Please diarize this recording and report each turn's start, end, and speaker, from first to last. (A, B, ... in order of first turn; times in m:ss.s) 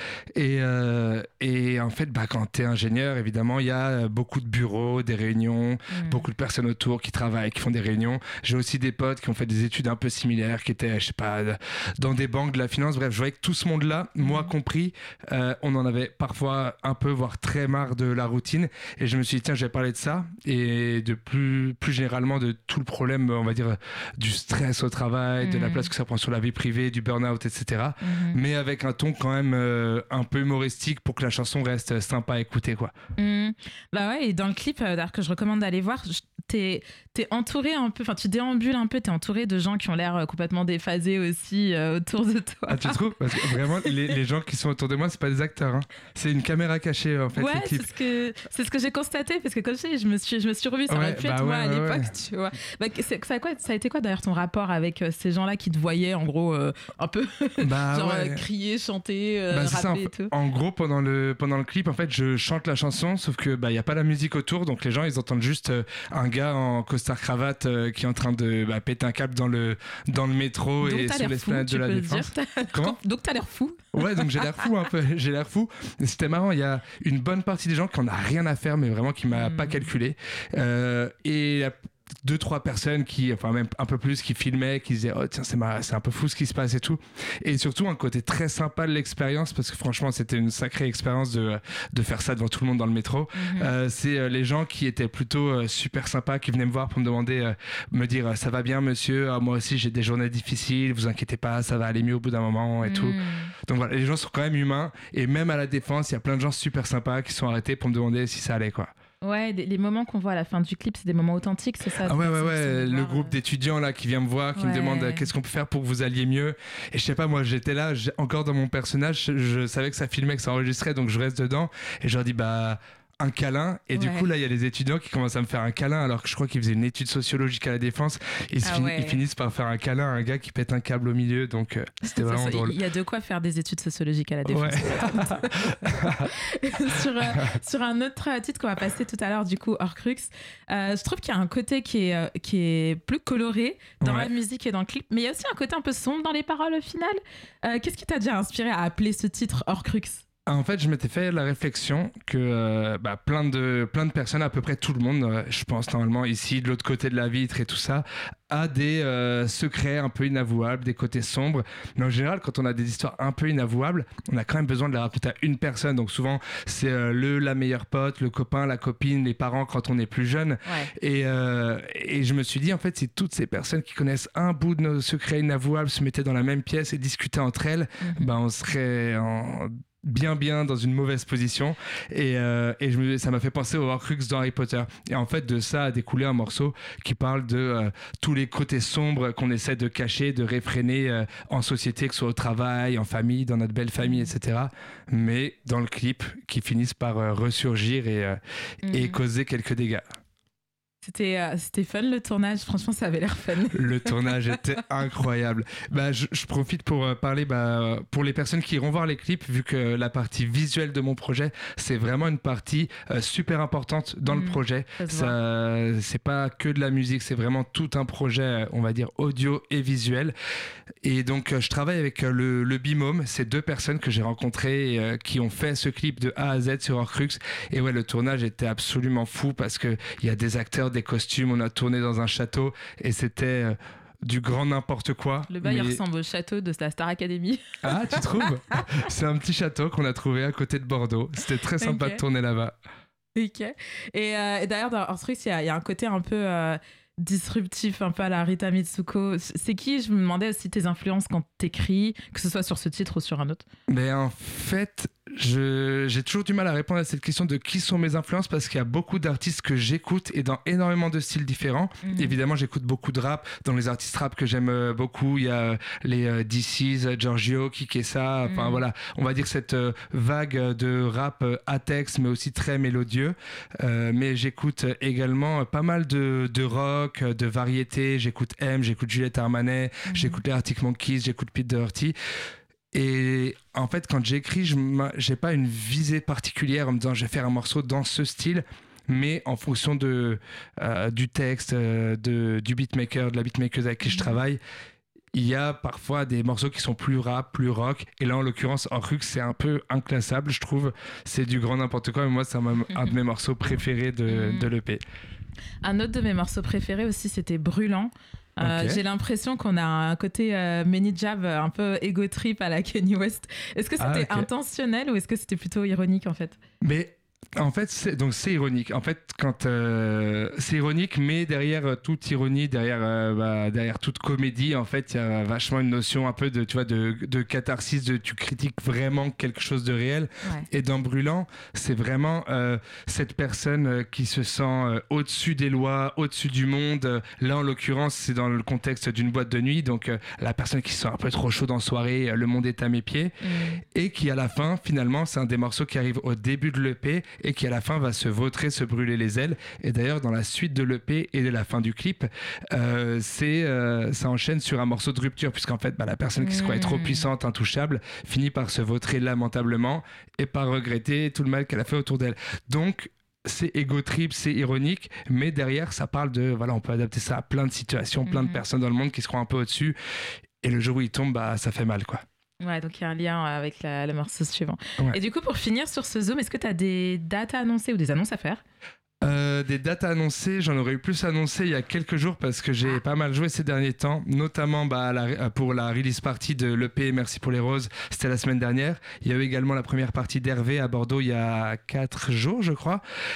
0:00.3-0:32.9 A
0:05.9-0:06.3 B
0:14.2-0:14.5 B
0:25.4-0:25.9 B
0:28.0-0:28.4 B
0:33.2-0:44.2 B
0:42.7-0:47.9 A
0:47.3-1:00.3 B
0:50.9-0:52.1 A
0:57.6-0:58.4 A
0:59.5-1:13.0 A
1:10.8-1:14.7 B
1:14.0-1:43.2 A
1:19.3-1:19.9 B
1:33.3-1:33.7 B
1:42.8-1:43.5 B
1:43.7-1:48.9 A
1:49.2-1:53.4 B
1:52.0-2:12.8 A
1:54.6-1:55.3 B
2:03.9-2:04.3 B
2:08.6-2:09.2 B
2:12.0-2:30.2 B
2:14.5-2:16.2 A
2:24.0-2:24.3 A
2:30.5-3:20.1 A
2:58.0-2:58.3 B
3:14.0-3:14.3 B
3:18.8-3:19.2 B
3:21.0-3:24.4 B
3:23.8-3:40.3 A
3:34.3-3:35.4 B
3:41.0-3:56.0 A
3:55.5-3:58.8 B
3:57.8-4:02.8 A
4:01.8-4:02.2 B
4:03.4-4:13.6 B
4:13.9-4:42.1 A
4:22.0-4:22.4 B
4:28.4-4:28.8 B
4:40.0-4:40.4 B
4:42.9-4:54.6 A
4:54.0-4:54.4 B
4:55.3-5:05.0 A
5:04.3-5:04.7 B
5:05.8-5:16.6 B
5:08.6-5:09.0 A
5:14.0-5:14.5 A
5:16.8-5:43.3 A
5:43.4-5:43.8 B
5:43.9-6:09.9 A
5:56.4-5:57.3 B
6:08.2-6:08.6 B
6:10.6-6:12.2 A
6:12.6-6:18.6 B
6:19.2-6:33.0 A